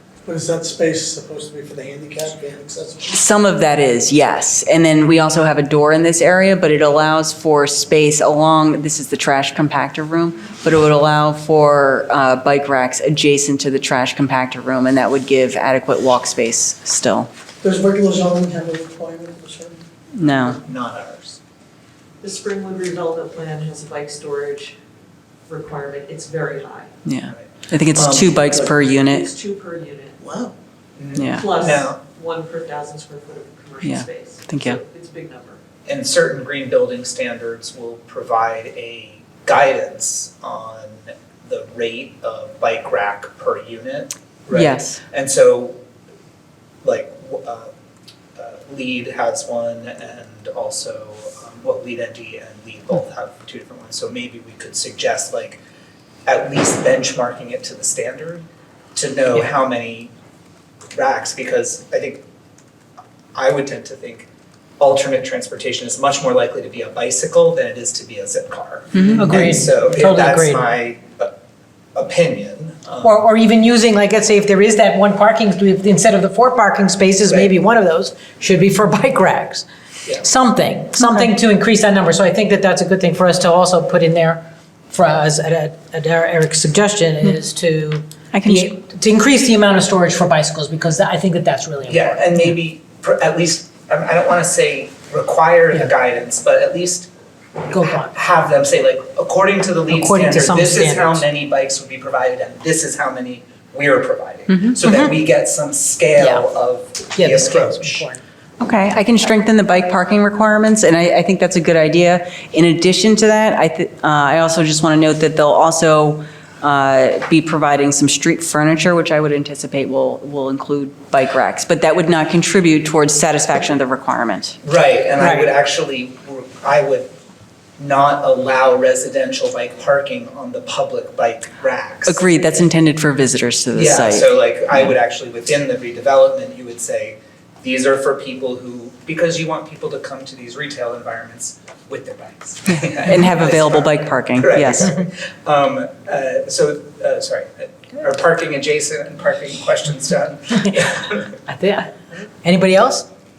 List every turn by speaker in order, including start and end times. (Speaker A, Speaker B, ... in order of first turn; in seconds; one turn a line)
Speaker A: 0.3-3.0
Speaker B: 3.1-17.3
Speaker A: 17.6-19.7
Speaker B: 20.1-20.6
Speaker C: 20.6-21.4
Speaker D: 22.2-24.8
Speaker D: 25.5-26.9
Speaker B: 27.0-29.3
Speaker C: 27.3-28.3
Speaker D: 29.1-30.2
Speaker C: 31.0-32.0
Speaker B: 31.1-31.5
Speaker D: 31.3-35.6
Speaker B: 33.8-34.8
Speaker C: 35.9-45.8
Speaker B: 44.5-45.0
Speaker C: 46.8-47.7
Speaker C: 48.4-55.6
Speaker C: 56.2-60.1
Speaker C: 60.9-62.2
Speaker C: 63.3-64.3
Speaker C: 64.8-71.3
Speaker B: 68.9-69.3
Speaker E: 69.2-70.6
Speaker C: 71.9-73.2
Speaker E: 73.0-92.5
Speaker C: 77.2-77.5
Speaker B: 81.0-81.2
Speaker B: 88.3-88.7
Speaker C: 91.9-97.1
Speaker E: 97.7-98.2
Speaker C: 97.7-108.0
Speaker E: 99.9-101.2
Speaker B: 104.5-104.8
Speaker E: 104.8-105.1
Speaker E: 106.2-106.5
Speaker E: 107.1-108.2
Speaker B: 108.6-124.5
Speaker C: 124.6-127.1
Speaker E: 125.2-125.5
Speaker C: 127.8-132.2
Speaker B: 132.1-134.9
Speaker C: 133.7-151.3
Speaker B: 142.7-144.9
Speaker E: 151.4-153.1